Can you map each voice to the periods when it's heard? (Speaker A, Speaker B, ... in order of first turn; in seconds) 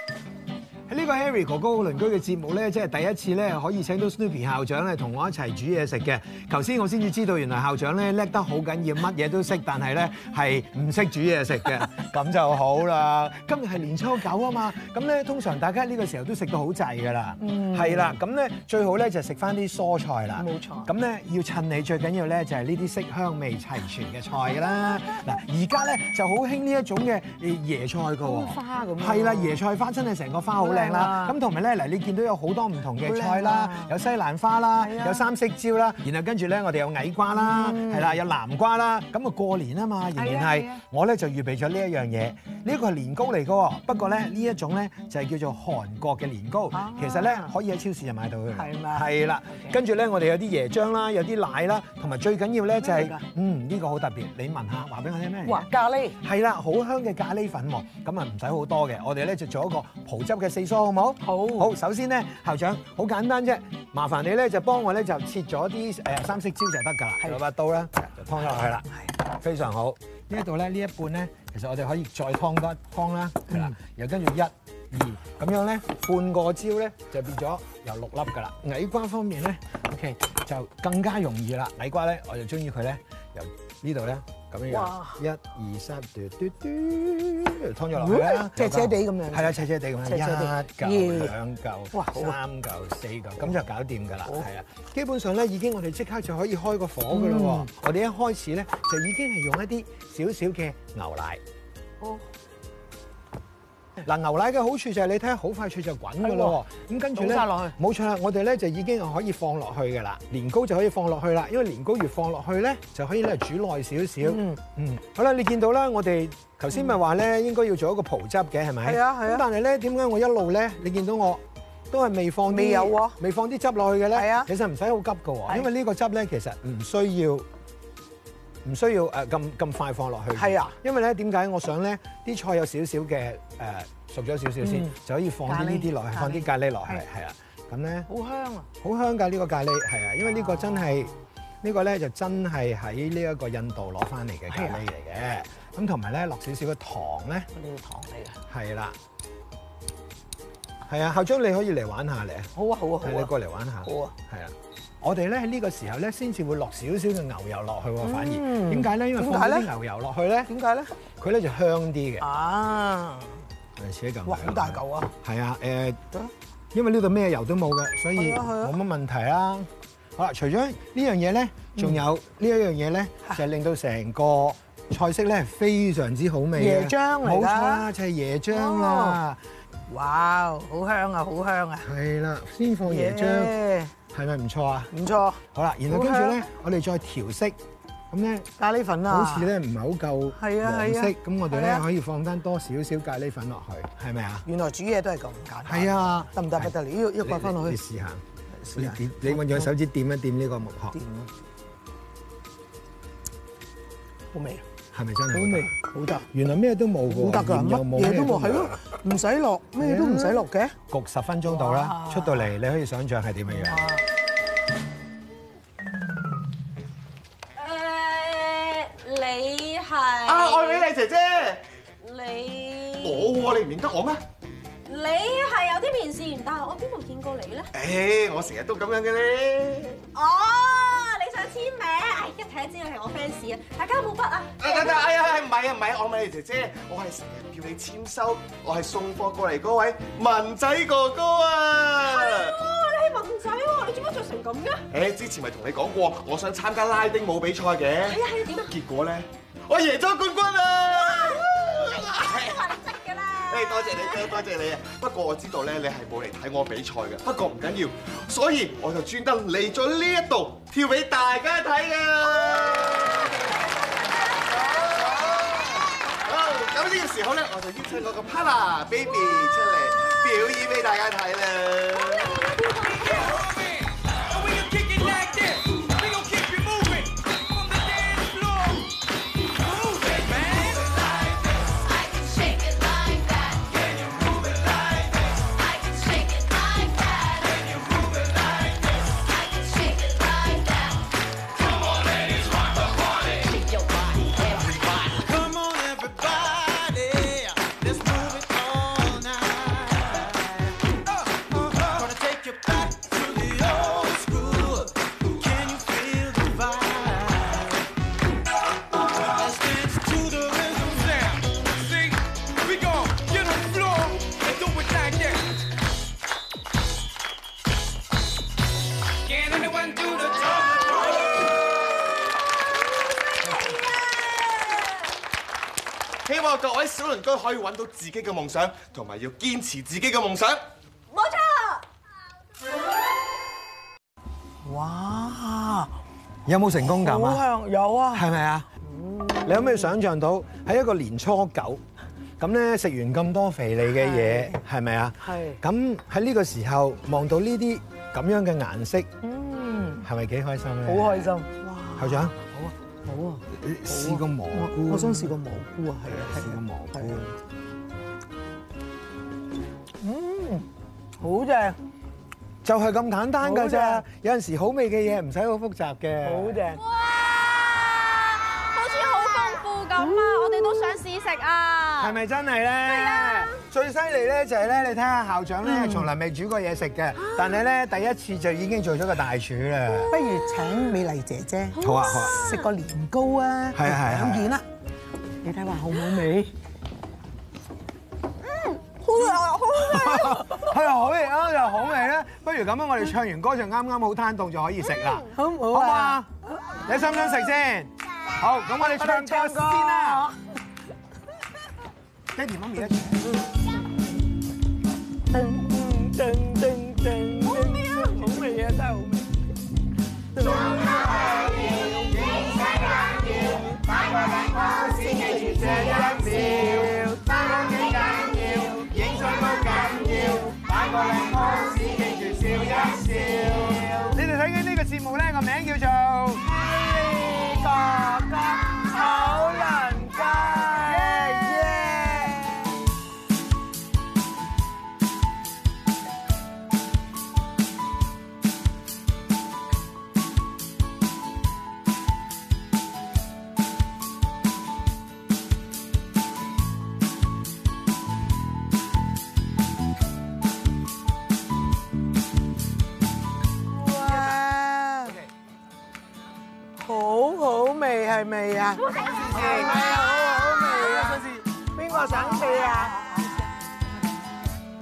Speaker A: 0.9-55.7, 56.2-101.4, 104.0-127.5, 128.6-138.1, 138.8-147.5, 148.5-148.9, 150.8-152.5, 153.0-160.5, 161.2-162.2, 163.8-166.0, 166.7-179.4, 181.8-183.6, 184.1-184.9, 185.5-187.6, 188.1-188.5, 189.1-194.4, 195.7-198.2, 198.8-201.0, 204.9-205.7, 206.3-208.8, 209.8-213.8, 336.4-337.5, 338.1-338.7, 339.4-341.8, 342.4-349.1, 350.0-351.3, 352.0-352.3, 353.5-355.4, 356.1-357.3, 362.6-366.6, 372.0-380.2, 381.8-382.4, 383.7-384.5, 389.8-396.3, 396.8-400.3, 402.3-403.2, 410.4-432.6, 454.0-454.4, 455.0-455.3, 458.9-462.7
Speaker B: 17.4-18.1, 20.4-20.9, 28.2-29.6, 30.6-31.4, 33.0-33.9, 34.8-35.2, 37.3-38.2, 40.2-40.8, 46.7-47.5, 48.5-49.8, 52.8-53.2, 55.5-56.2, 61.2-61.7, 84.7-85.2, 88.0-91.3, 91.9-92.4, 97.1-97.7, 106.2-106.6, 107.2-107.7, 114.2-114.6, 118.8-119.4, 122.5-123.2, 124.1-124.5, 130.4-130.8, 134.6-134.9, 135.4-137.1, 138.1-138.7, 140.3-141.2, 144.5-144.8, 147.5-148.4, 152.6-153.3, 153.8-154.1, 158.0-159.7, 160.5-160.9, 162.2-163.5, 164.3-165.1, 168.2-168.8, 171.8-172.0, 176.6-177.9, 178.5-179.2, 179.9-181.8, 182.9-183.9, 184.9-186.4, 188.6-189.5, 190.3-191.8, 194.4-197.8, 198.6-199.7, 200.9-201.3, 204.3-204.6, 205.3-206.3, 207.1-210.7, 211.5-212.5, 213.5-214.0, 334.6-335.9, 336.8-338.3, 338.8-339.9, 343.9-344.6, 345.2-345.6, 349.2-350.1, 350.9-357.3, 360.0-360.7, 361.2-361.8, 363.4-364.1, 366.2-366.8, 375.6-376.1, 380.1-384.6, 385.4-386.5, 395.3-396.2, 398.8-400.4, 405.3-409.4, 410.4-412.0, 426.5-432.6, 453.7-455.2, 456.8-463.2
Speaker C: 217.6-220.9, 222.0-223.3, 224.9-227.7, 230.1-235.3, 242.0-244.8, 248.0-248.7, 250.9-254.4, 271.9-273.5, 275.0-275.5, 323.0-325.0, 331.1-331.8, 366.8-372.2, 372.8-373.5, 377.2-377.6, 381.8-382.7, 388.4-390.4, 407.4-408.5, 458.8-460.4
Speaker D: 220.2-221.6, 223.0-224.2, 227.7-230.0, 234.6-242.6, 244.9-252.6, 253.4-263.2, 266.2-272.4, 274.4-274.8, 275.7-277.0, 326.2-330.6
Speaker E: 276.4-277.1, 277.6-278.6, 280.1-280.9, 295.0-300.4, 301.8-307.8, 309.2-315.6, 319.5-320.1